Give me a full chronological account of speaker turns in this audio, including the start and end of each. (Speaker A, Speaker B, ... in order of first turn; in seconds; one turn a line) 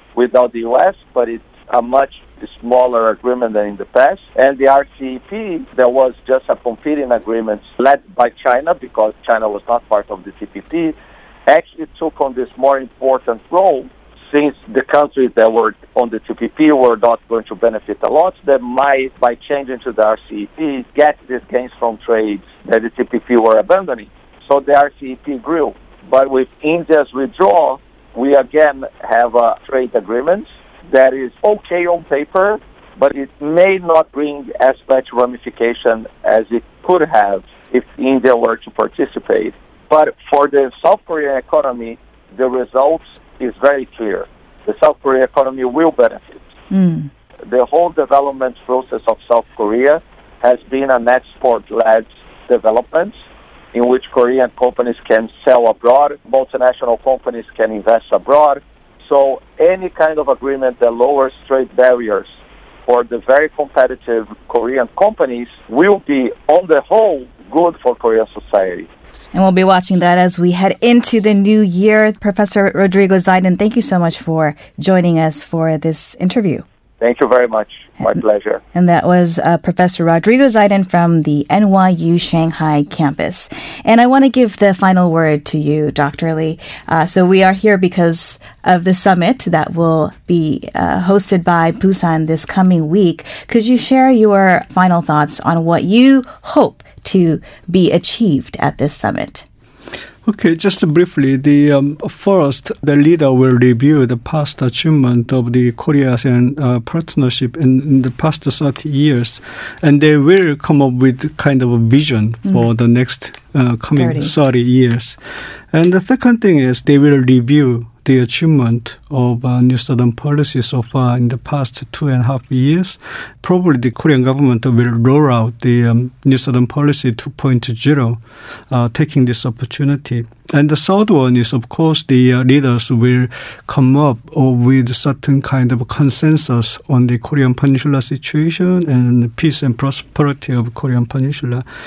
Speaker A: 0.1-10.9
Speaker A: 11.5-46.4
Speaker B: 46.7-47.1
Speaker A: 47.5-53.1
Speaker A: 53.7-62.3
Speaker A: 62.9-68.9
Speaker B: 69.3-76.6
Speaker A: 77.0-78.6
Speaker B: 78.7-99.5
Speaker C: 100.2-115.2
Speaker C: 115.7-128.2
Speaker C: 128.7-141.7